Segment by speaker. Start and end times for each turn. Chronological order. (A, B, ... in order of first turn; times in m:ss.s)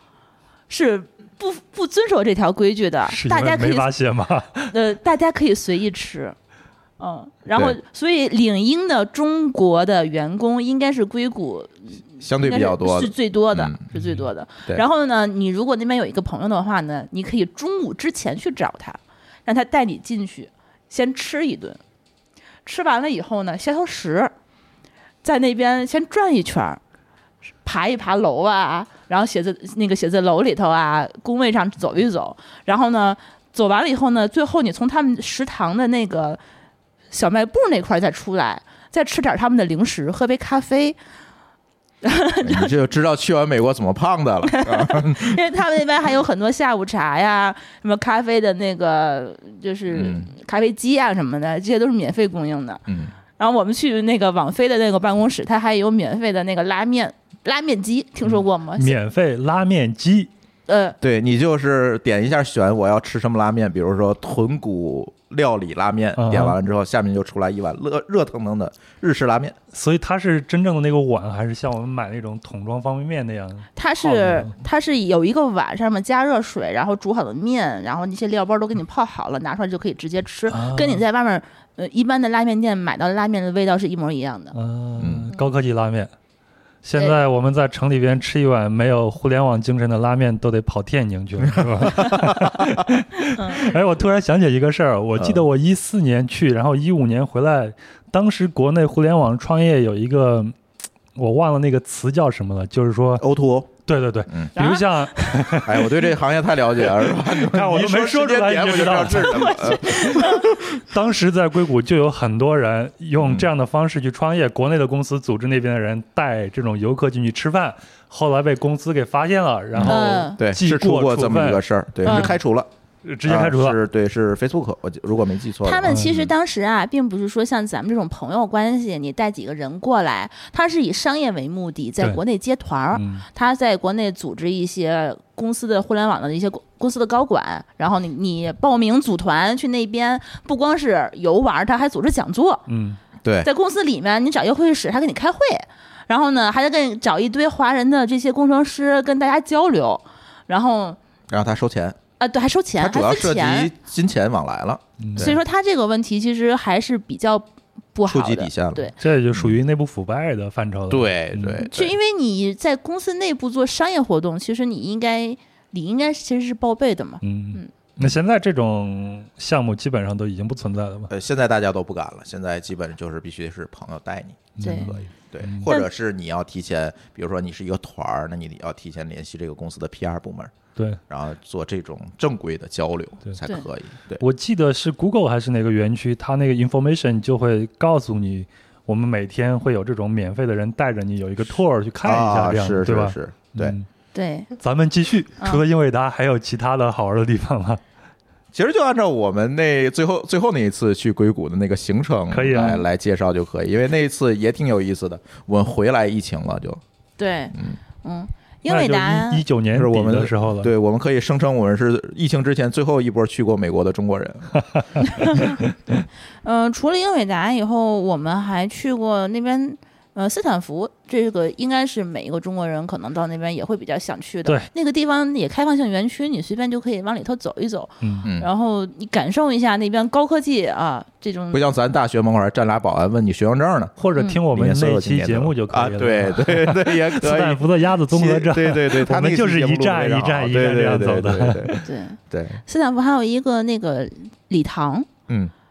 0:00.7-0:03.9 A
0:03.1-0:04.7 B
0:04.7-0:06.3 A
0:07.0-0:21.8 A
0:12.2-0:13.8 C
0:14.0-0:14.2 B
0:22.6-0:24.3 A
0:25.2-0:26.8 A
0:27.6-0:36.4 A
0:37.1-0:41.0 A
0:42.0-0:42.7 A
0:42.4-0:45.4 C
0:44.4-0:52.8 A
0:49.9-0:50.3 C
0:52.9-0:53.1 C
0:53.4-0:59.0 A
0:58.8-1:00.3 B
1:00.7-1:01.0 A
1:01.0-1:09.6 C
1:06.2-1:06.6 B
1:09.7-1:14.5 B
1:13.8-1:24.6 A
1:20.5-1:21.0 B
1:24.5-1:26.1 B
1:25.0-1:25.3 C
1:26.8-1:40.6 B
1:31.4-1:32.8 C
1:33.3-1:33.8 A
1:35.2-1:35.4 C
1:41.1-1:43.2 B
1:43.2-1:43.7 C
1:43.8-1:45.9 B
1:44.3-1:44.5 C
1:44.6-1:45.7 A
1:45.6-1:50.8 C
1:47.0-2:02.4 B
1:49.2-1:50.5 A
1:53.2-1:53.5 C
1:59.7-2:02.7 C
1:59.8-2:00.4 A
2:02.0-2:02.3 A
2:03.0-2:03.8 B
2:03.2-2:06.2 C
2:05.6-2:22.6 A
2:05.9-2:06.3 B
2:12.9-2:13.2 B
2:22.7-2:23.0 B
2:23.2-2:23.5 C
2:23.4-2:31.0 A
2:31.3-2:32.0 C
2:32.2-2:33.7 A
2:32.8-2:35.4 C
2:35.0-2:35.4 B
2:35.2-2:38.9 A
2:38.1-2:39.5 C
2:39.0-2:41.6 B
2:40.9-2:41.9 C
2:41.6-2:47.7 A
2:47.2-2:51.1 B
2:51.1-3:00.5 C
2:54.6-2:55.7 B
2:54.6-2:54.9 A
3:00.8-3:01.0 B
3:01.1-3:04.2 C
3:04.2-3:13.8 B
3:12.0-3:13.8 C
3:14.1-3:14.5 A
3:14.6-3:17.8 B
3:18.5-3:26.8 C
3:22.3-3:22.8 B
3:27.2-3:29.4 A
3:27.5-3:27.8 C
3:28.7-3:30.7 B
3:29.7-3:34.6 C
3:35.1-3:35.6 A
3:35.2-3:35.4 C
3:35.7-3:36.0 B
3:36.4-3:51.6 A
3:48.0-3:48.3 B
3:51.5-3:54.0 C
3:54.0-4:01.9 B
3:54.1-3:54.4 A
3:54.5-4:02.6 C
4:01.8-4:05.1 A
4:05.3-4:05.5 C